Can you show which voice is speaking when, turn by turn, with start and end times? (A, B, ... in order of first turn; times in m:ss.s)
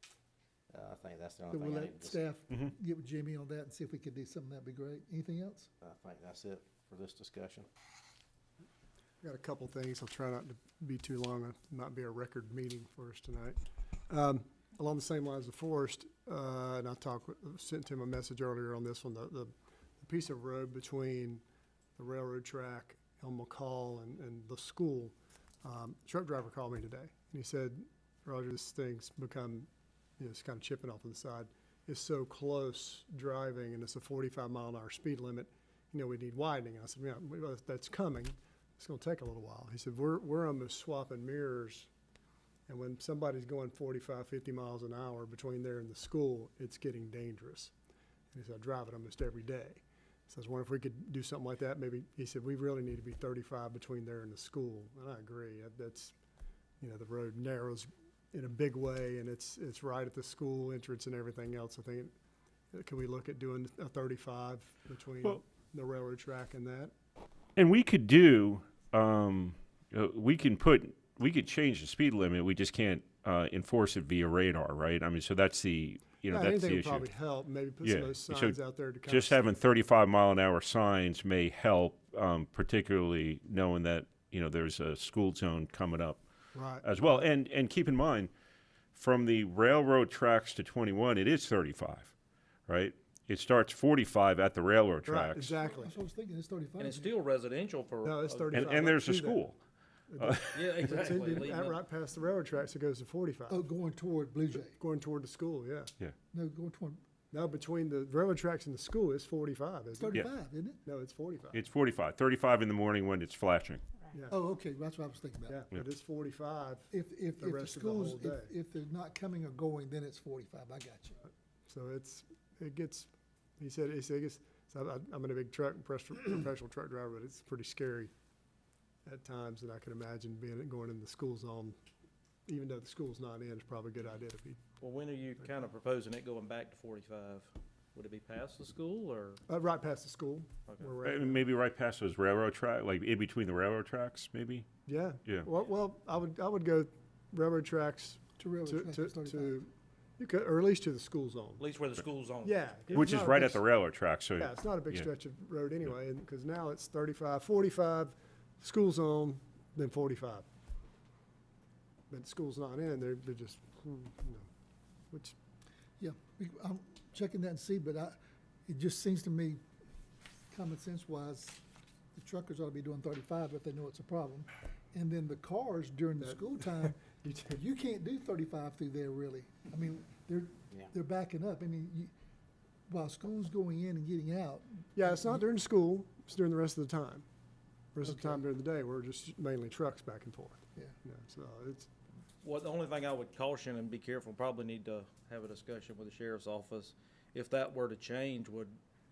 0:00.7-0:02.2 A
0:01.5-0:05.7 B
0:05.8-0:07.7 A
0:09.2-0:21.4 C
0:22.0-0:41.9 C
0:42.7-0:47.7 C
0:48.3-0:56.1 C
0:56.8-1:02.1 C
1:02.7-1:06.9 C
1:07.6-1:17.1 D
1:16.3-1:19.6 C
1:17.8-1:26.2 D
1:26.5-1:26.9 C
1:26.8-1:28.3 D
1:28.9-1:32.1 D
1:32.7-1:35.6 D
1:35.1-1:36.0 C
1:35.7-1:37.2 B
1:36.8-1:38.7 E
1:38.0-1:39.4 C
1:38.5-1:39.6 D
1:40.1-1:43.6 C
1:40.2-1:40.8 D
1:40.5-1:41.8 E
1:43.5-1:44.8 B
1:44.5-1:45.9 C
1:46.3-1:47.0 B
1:47.3-1:50.3 C
1:50.0-1:50.8 B
1:50.8-1:51.6 C
1:51.5-1:53.8 D
1:54.1-1:54.4 C
1:54.3-1:55.6 B
1:55.5-1:58.5 C
1:56.9-2:01.2 B
2:01.7-2:08.1 C
2:09.1-2:11.8 C
2:12.5-2:14.6 C
2:14.8-2:19.4 E
2:19.5-2:21.4 C
2:20.7-2:20.9 E
2:21.0-2:24.7 D
2:24.9-2:31.6 C
2:28.4-2:29.6 B
2:31.6-2:32.6 E
2:32.4-2:33.7 C
2:32.9-2:35.1 D
2:34.4-2:40.5 C
2:42.1-2:44.5 C
2:45.1-2:45.4 C
2:46.0-2:49.6 B
2:50.5-2:51.6 B
2:52.2-3:02.1 B
2:56.2-2:57.6 C
3:02.9-3:05.4 B
3:05.0-3:07.3 C
3:07.9-3:11.9 C
3:08.0-3:08.4 B
3:12.4-3:18.8 E